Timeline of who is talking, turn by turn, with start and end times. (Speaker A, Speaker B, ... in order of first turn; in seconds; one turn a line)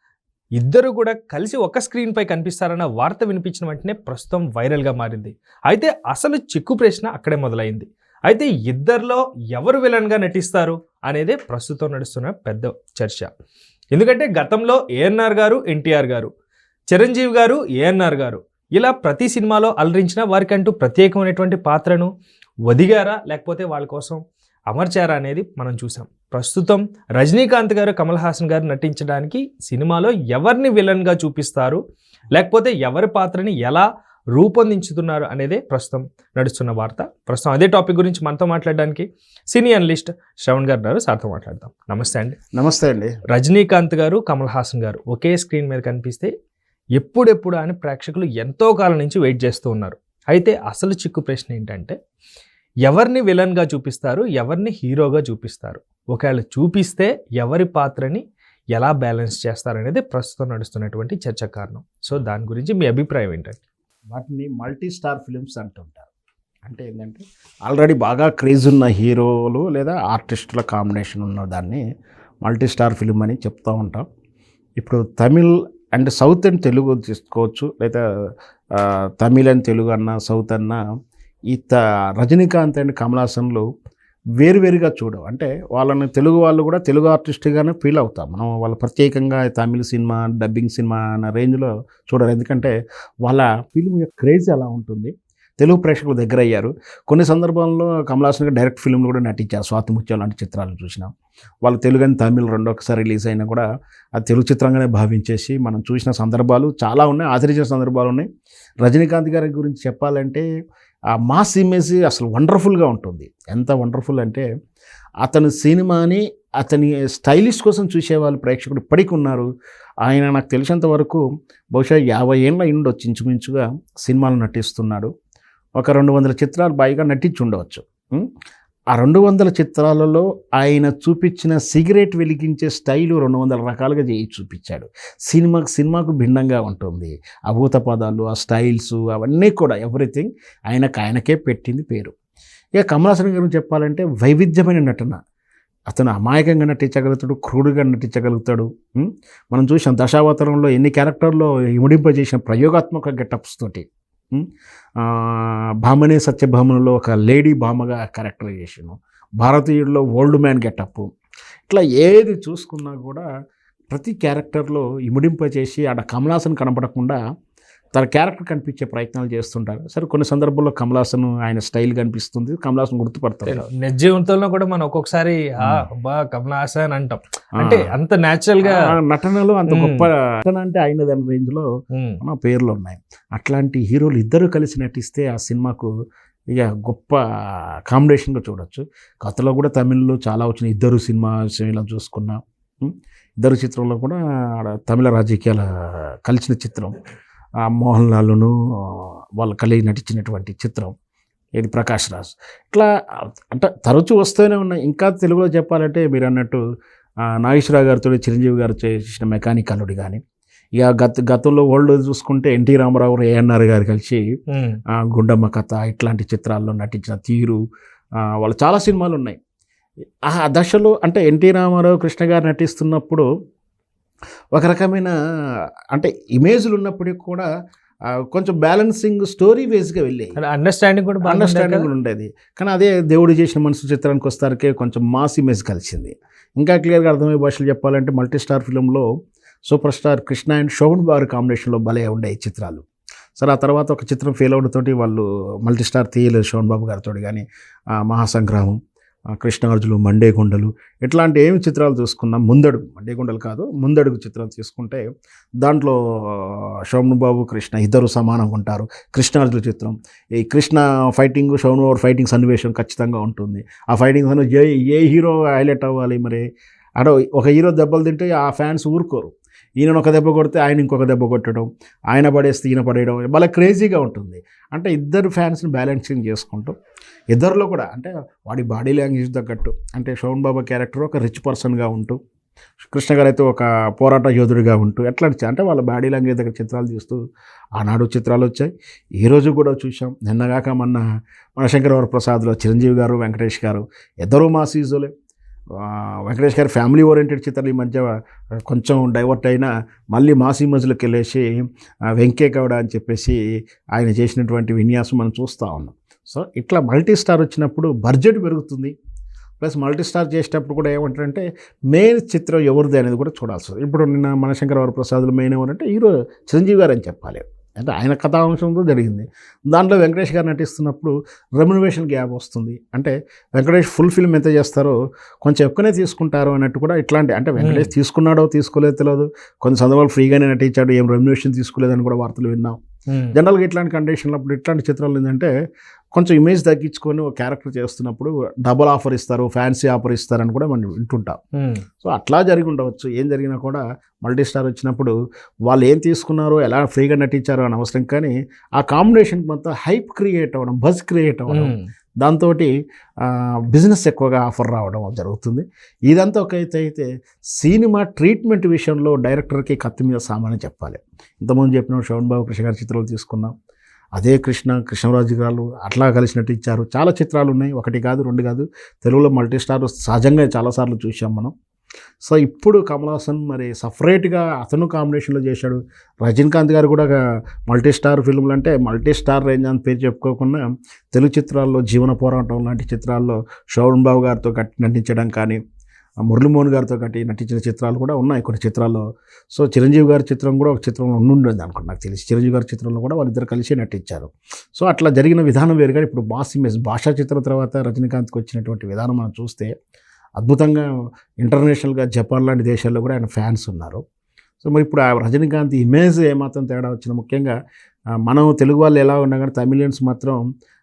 Speaker A: 0.6-13.3
Speaker A: 13.9-16.3
Speaker A: 16.9-22.1
Speaker A: 22.7-31.8
Speaker A: 32.3-42.4
Speaker B: 42.5-43.1
Speaker A: 43.3-46.3
Speaker A: 47.0-51.9
Speaker A: 52.9-58.2
Speaker A: 58.7-63.6
Speaker B: 64.1-66.1
Speaker B: 66.6-71.8
Speaker B: 72.4-74.0
Speaker B: 74.8-78.0
Speaker B: 78.8-80.8
Speaker B: 81.5-83.7
Speaker B: 84.4-92.7
Speaker B: 93.2-101.1
Speaker B: 101.6-103.7
Speaker B: 104.2-108.2
Speaker B: 108.8-110.5
Speaker B: 111.2-114.5
Speaker B: 115.2-119.5
Speaker B: 120.0-121.2
Speaker B: 121.7-125.1
Speaker B: 125.8-128.3
Speaker B: 128.9-142.1
Speaker B: 142.8-145.2
Speaker B: 145.9-154.5
Speaker B: 155.0-161.1
Speaker B: 161.7-163.2
Speaker B: 163.9-167.2
Speaker B: 167.9-173.7
Speaker A: 173.4-178.9
Speaker B: 177.6-177.9
Speaker B: 178.6-181.7
Speaker A: 179.7-180.1
Speaker A: 181.9-182.2
Speaker B: 182.2-185.9
Speaker B: 186.5-187.2
Speaker B: 187.9-195.6
Speaker B: 196.2-197.0
Speaker B: 197.7-200.9
Speaker B: 201.6-202.9
Speaker B: 203.5-206.6
Speaker B: 207.4-210.2
Speaker B: 210.8-214.2
Speaker A: 214.5-214.8
Speaker B: 215.0-217.6
Speaker B: 218.4-219.4
Speaker B: 220.3-223.2
Speaker B: 224.5-225.1
Speaker B: 225.9-227.4
Speaker B: 228.3-230.3
Speaker A: 230.3-231.9
Speaker B: 231.2-239.1
Speaker B: 239.7-242.8
Speaker B: 243.4-247.4
Speaker B: 248.0-248.8
Speaker B: 249.4-255.0
Speaker B: 255.6-266.4
Speaker B: 267.0-276.7
Speaker B: 277.3-282.2
Speaker B: 282.8-287.2
Speaker B: 287.8-291.0
Speaker B: 291.6-295.1
Speaker B: 295.7-298.1
Speaker B: 298.6-303.4
Speaker B: 303.9-308.9
Speaker B: 309.6-332.8
Speaker A: 327.6-327.9
Speaker A: 333.1-333.4
Speaker B: 333.3-335.5
Speaker B: 336.1-341.4
Speaker A: 341.6-341.8
Speaker B: 342.0-345.1
Speaker B: 345.7-352.7
Speaker A: 351.5-351.9
Speaker B: 353.2-363.5
Speaker B: 364.1-371.5
Speaker B: 372.2-377.1
Speaker B: 377.7-385.6
Speaker B: 386.2-399.7
Speaker B: 400.4-400.9
Speaker B: 401.4-404.0
Speaker B: 404.6-407.5
Speaker B: 408.2-410.4